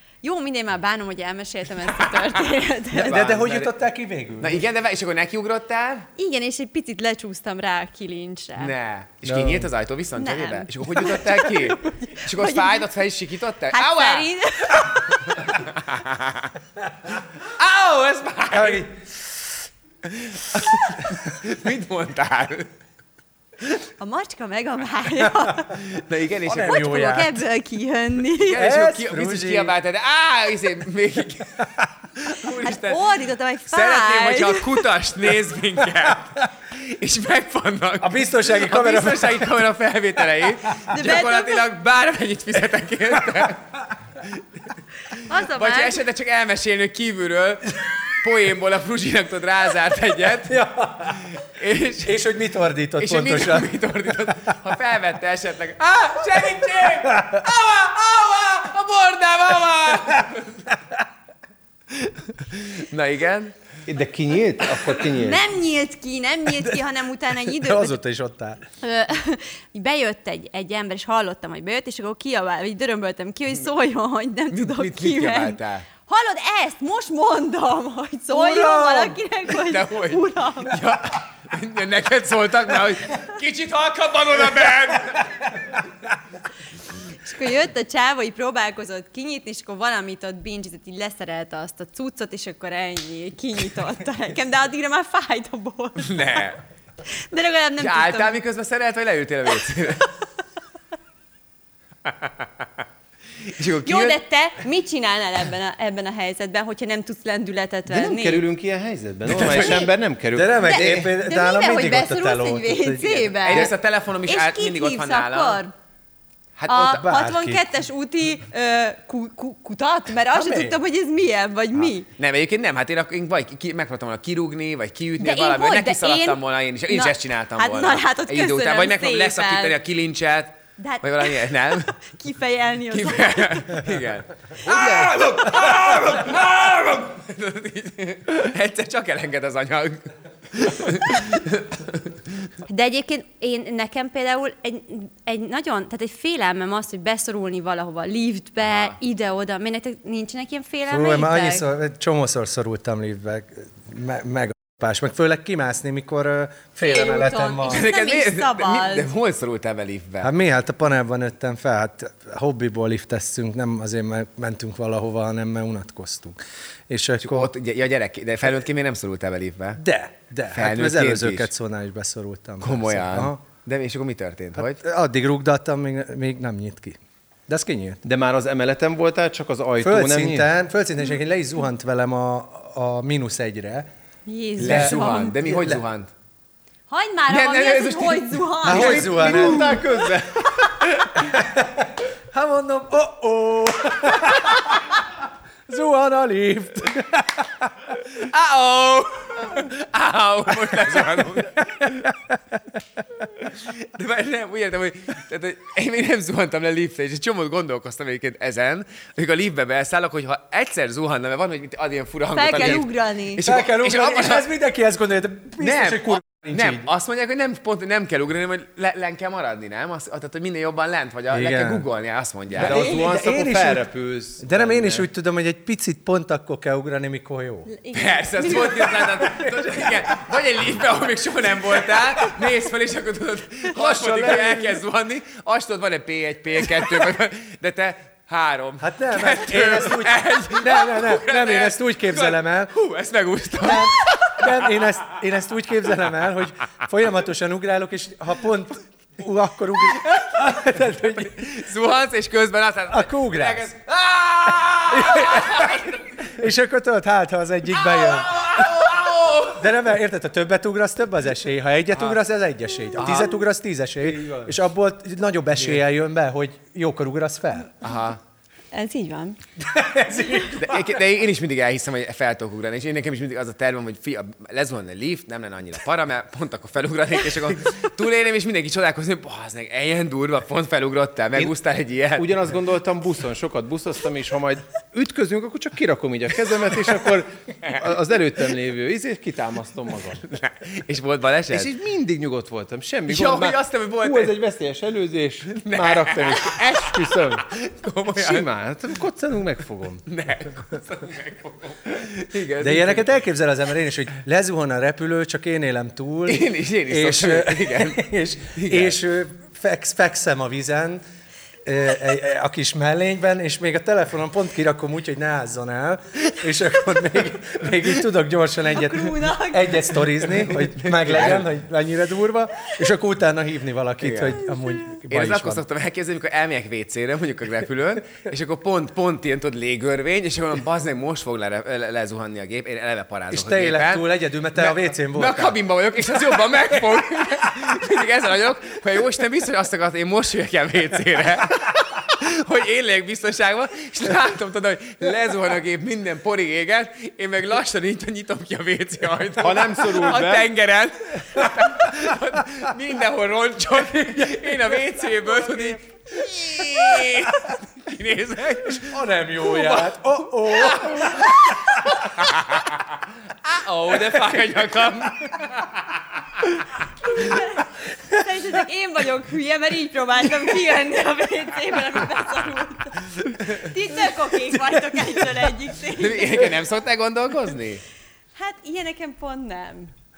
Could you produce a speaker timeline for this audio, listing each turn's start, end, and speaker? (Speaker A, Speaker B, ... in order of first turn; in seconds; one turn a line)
Speaker A: 0.2-3.2
Speaker B: 2.9-4.6
Speaker C: 3.0-3.7
Speaker C: 4.4-6.1
Speaker A: 6.2-8.7
Speaker C: 8.6-14.3
Speaker B: 9.2-9.7
Speaker A: 10.2-12.9
Speaker A: 13.7-15.5
Speaker C: 15.5-16.5
Speaker C: 17.6-18.8
Speaker B: 18.5-19.0
Speaker C: 20.1-22.7
Speaker A: 24.0-25.7
Speaker C: 25.8-27.0
Speaker B: 26.4-27.4
Speaker A: 26.6-28.6
Speaker C: 28.5-33.0
Speaker B: 28.5-29.7
Speaker A: 32.6-34.8
Speaker C: 33.7-43.6
Speaker B: 38.0-39.5
Speaker A: 40.9-41.6
Speaker A: 45.1-46.0
Speaker C: 45.4-50.6
Speaker B: 50.5-51.3
Speaker C: 51.4-52.2
Speaker B: 52.0-53.7
Speaker C: 53.0-60.6
Speaker C: 62.1-63.5
Speaker D: 63.9-65.4
Speaker A: 65.2-68.0
Speaker B: 67.4-68.6
Speaker A: 68.8-80.8
Speaker C: 74.5-75.9
Speaker B: 78.3-79.2
Speaker C: 79.5-85.3
Speaker A: 87.2-96.4
Speaker C: 96.0-96.6
Speaker A: 97.1-98.4
Speaker C: 97.8-100.1
Speaker C: 103.5-104.2
Speaker A: 103.8-108.4
Speaker D: 107.9-111.1
Speaker C: 109.3-109.8
Speaker A: 109.5-109.9
Speaker B: 110.3-113.7
Speaker A: 110.6-113.7
Speaker C: 113.5-115.6
Speaker A: 114.3-115.7
Speaker C: 116.6-117.0
Speaker A: 116.7-122.0
Speaker B: 116.9-117.6
Speaker B: 120.3-120.8
Speaker C: 122.1-131.9
Speaker A: 125.2-129.8
Speaker A: 130.8-133.8
Speaker C: 132.9-142.0
Speaker A: 142.7-151.6
Speaker C: 148.6-149.0
Speaker B: 150.9-157.8
Speaker A: 156.8-159.1
Speaker C: 157.6-160.3
Speaker B: 160.2-166.3
Speaker B: 166.9-167.5
Speaker C: 167.2-169.8
Speaker B: 169.8-173.4
Speaker C: 170.5-171.5
Speaker C: 172.6-174.8
Speaker B: 174.6-178.0
Speaker D: 178.0-180.5
Speaker B: 179.8-183.9
Speaker A: 184.3-185.3
Speaker B: 184.6-185.8
Speaker C: 184.6-186.1
Speaker A: 186.9-189.1
Speaker C: 187.3-189.8
Speaker B: 188.6-189.8
Speaker D: 188.7-190.5
Speaker B: 191.2-195.0
Speaker B: 195.7-197.7
Speaker C: 198.2-201.7
Speaker B: 201.8-202.1
Speaker C: 203.5-214.5
Speaker A: 212.3-213.4
Speaker B: 213.4-216.9
Speaker C: 215.6-222.8
Speaker B: 221.3-221.8
Speaker D: 222.5-225.1
Speaker B: 222.6-223.8
Speaker B: 224.4-227.7
Speaker A: 227.7-229.2
Speaker C: 227.9-244.9
Speaker B: 228.5-229.9
Speaker B: 233.8-234.8
Speaker D: 233.9-234.3
Speaker B: 238.8-242.7
Speaker B: 243.6-251.4
Speaker C: 249.9-250.2
Speaker C: 250.7-256.3
Speaker B: 252.9-253.7
Speaker B: 254.9-258.7
Speaker C: 257.7-259.6
Speaker B: 259.6-267.7
Speaker C: 261.9-262.2
Speaker C: 262.9-263.4
Speaker D: 264.0-264.5
Speaker C: 267.8-268.2
Speaker A: 268.7-269.4
Speaker B: 269.6-270.9
Speaker C: 270.5-282.3
Speaker D: 282.1-290.2
Speaker C: 290.2-291.7
Speaker D: 291.5-297.5
Speaker C: 293.1-294.4
Speaker C: 295.5-298.4
Speaker D: 298.1-300.0
Speaker C: 300.1-303.1
Speaker B: 302.6-311.0
Speaker C: 306.3-309.0
Speaker B: 311.6-325.6
Speaker A: 318.7-319.8
Speaker C: 320.2-321.5
Speaker C: 324.0-324.5
Speaker C: 325.1-361.6
Speaker B: 333.3-335.6
Speaker D: 349.4-350.5
Speaker B: 353.9-355.8
Speaker B: 356.6-357.3
Speaker B: 358.7-362.0
Speaker C: 362.2-362.8
Speaker C: 363.4-365.8
Speaker A: 367.0-376.5
Speaker C: 376.0-377.8
Speaker A: 378.4-379.9